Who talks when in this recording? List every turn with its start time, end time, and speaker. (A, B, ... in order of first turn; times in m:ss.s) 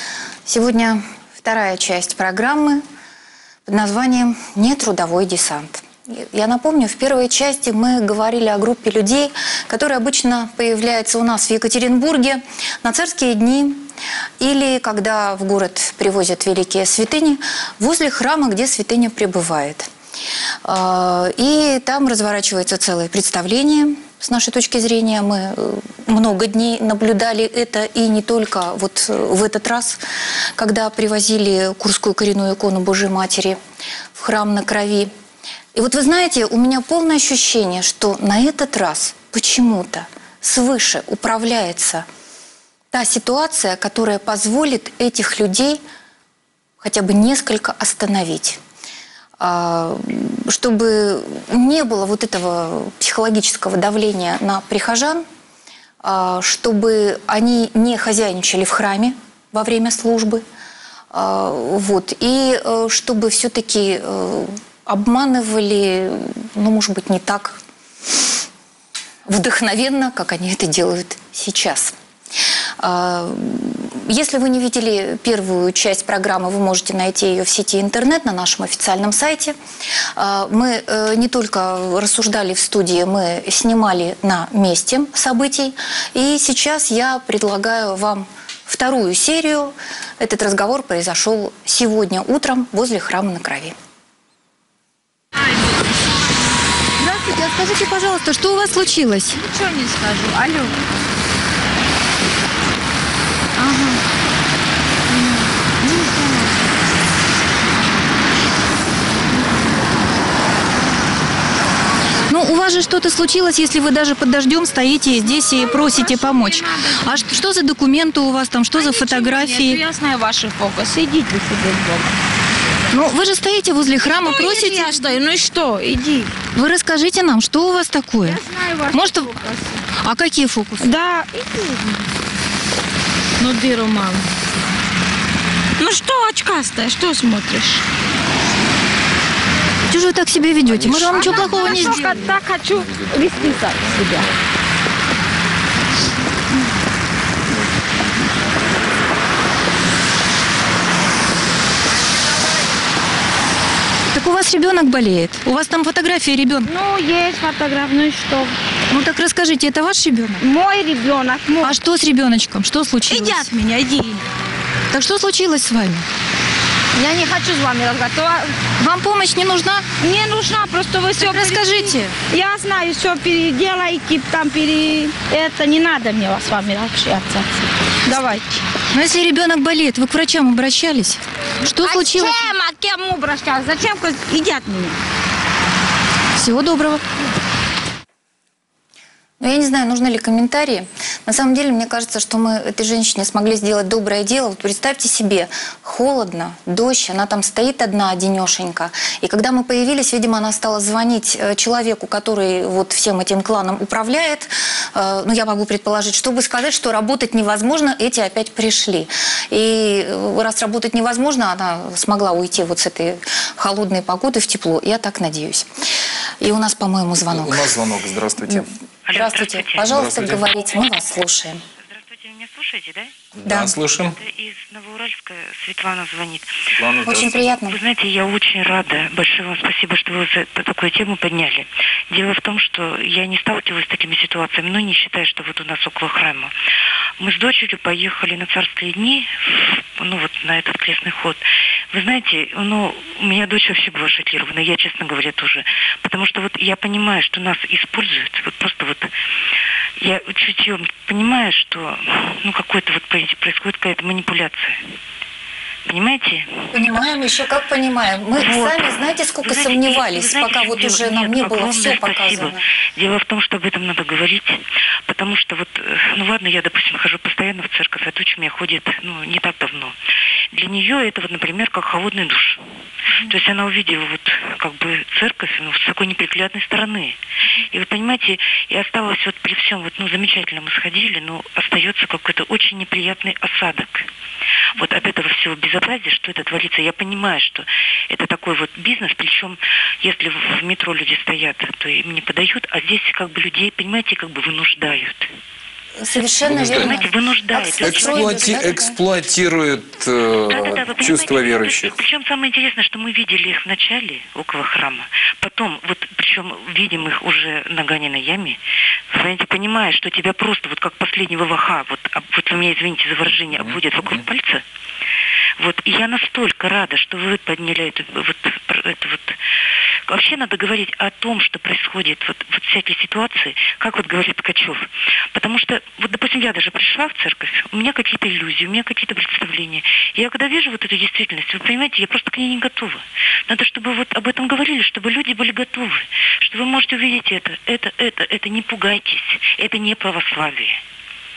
0:00.5-0:02.8 A
0:03.7-0:13.8 A
0:14.4-0:19.9 A
0:20.6-0:30.0 A
0:30.6-0:33.6 A
0:34.2-0:35.1 A
0:35.8-0:42.0 A
0:42.9-0:45.8 A
0:46.8-0:48.6 A
0:49.4-0:55.2 A
0:56.0-1:00.4 A
1:01.1-1:07.6 A
1:09.3-1:11.9 A
1:12.8-1:19.6 A
1:20.2-1:33.8 A
1:37.0-1:39.4 A
1:39.4-1:40.7 B
1:43.6-1:44.0 B
1:45.1-1:46.7 B
1:52.3-1:59.8 A
1:55.8-1:57.0 B
1:58.8-2:02.2 B
2:02.9-2:05.1 A
2:04.1-2:06.3 B
2:06.6-2:08.4 A
2:08.2-2:09.8 B
2:08.9-2:09.3 A
2:10.0-2:10.9 A
2:10.8-2:12.1 B
2:13.4-2:14.3 B
2:15.8-2:17.8 B
2:19.9-2:22.3 A
2:20.9-2:23.2 C
2:21.1-2:24.3 B
2:34.1-2:36.7 A
2:36.6-2:38.6 B
2:38.9-2:40.4 A
2:40.4-2:41.7 B
2:41.6-2:43.5 A
2:43.1-2:44.2 B
2:44.9-2:46.1 A
2:47.0-2:48.5 B
2:48.8-2:49.8 A
2:50.0-2:57.5 B
2:51.2-2:52.1 A
2:58.0-2:58.6 B
2:58.9-3:02.5 A
3:01.8-3:05.0 B
3:06.4-3:07.0 A
3:09.4-3:35.7 A
3:36.4-3:41.6 A
3:37.3-3:38.7 C
3:39.1-3:40.0 D
3:39.8-3:40.5 C
3:41.8-3:43.2 D
3:43.4-3:44.2 C
3:43.5-3:43.7 A
3:44.2-3:46.6 D
3:46.7-3:47.4 C
3:47.0-3:47.8 A
3:47.7-3:56.6 D
3:57.2-4:09.1 D
4:10.0-4:14.8 D
4:15.9-4:16.9 D
4:16.7-4:22.6 A
4:18.4-4:30.0 D
4:30.5-4:32.6 D
4:33.2-4:37.2 D
4:37.7-4:44.1 D
4:44.8-4:55.3 D
4:56.0-4:59.0 A
4:56.4-4:57.0 C
4:56.5-4:58.5 D
4:57.8-5:02.0 C
5:00.5-5:08.6 D
5:09.1-5:14.6 D
5:13.3-5:14.2 C
5:15.6-5:19.4 D
5:20.1-5:40.8 D